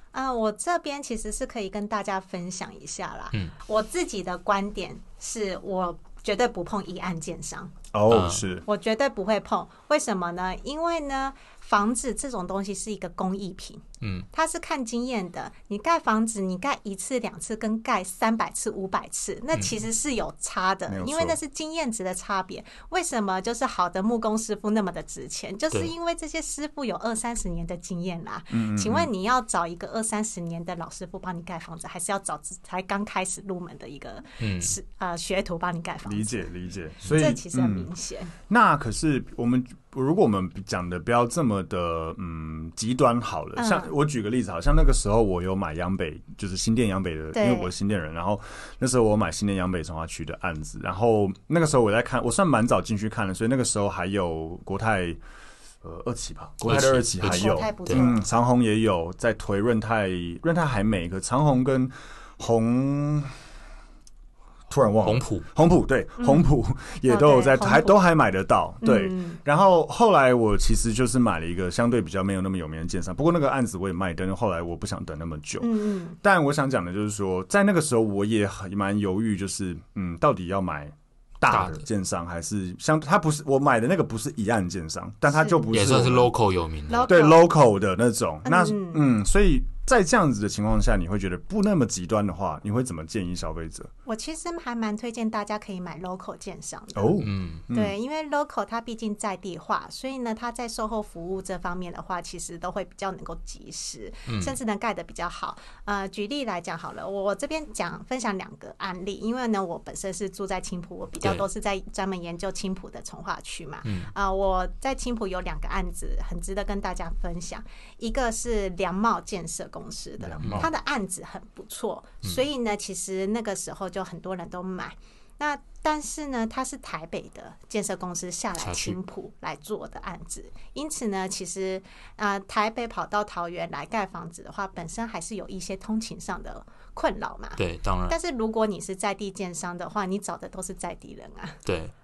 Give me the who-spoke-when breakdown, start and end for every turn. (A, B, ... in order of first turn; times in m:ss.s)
0:00.1-0:07.7 A
0:07.9-0:08.6 B
0:08.1-0:08.4 C
0:08.7-0:36.5 A
0:14.0-0:14.3 C
0:20.9-0:21.4 B
0:28.5-0:29.1 B
0:34.4-0:34.8 C
0:36.1-0:37.9 B
0:37.1-0:38.3 A
0:38.5-0:55.2 B
0:43.6-0:43.9 A
0:47.3-0:47.7 A
0:55.8-1:03.3 B
0:56.6-0:58.0 C
0:57.2-0:58.2 A
1:04.7-1:26.3 B
1:05.0-1:05.5 C
1:06.2-1:06.5 A
1:07.1-1:08.0 A
1:08.8-1:09.4 A
1:15.6-1:16.2 A
1:21.5-1:21.8 C
1:25.3-1:25.6 A
1:25.7-1:27.1 C
1:26.9-1:27.5 A
1:27.1-1:33.9 B
1:28.4-1:29.0 A
1:34.1-2:21.6 A
1:37.0-1:38.0 B
1:37.2-1:37.6 C
1:44.3-1:44.6 C
1:53.8-1:54.1 C
2:00.2-2:00.7 B
2:08.6-2:09.0 C
2:17.6-2:18.2 C
2:21.6-2:21.9 C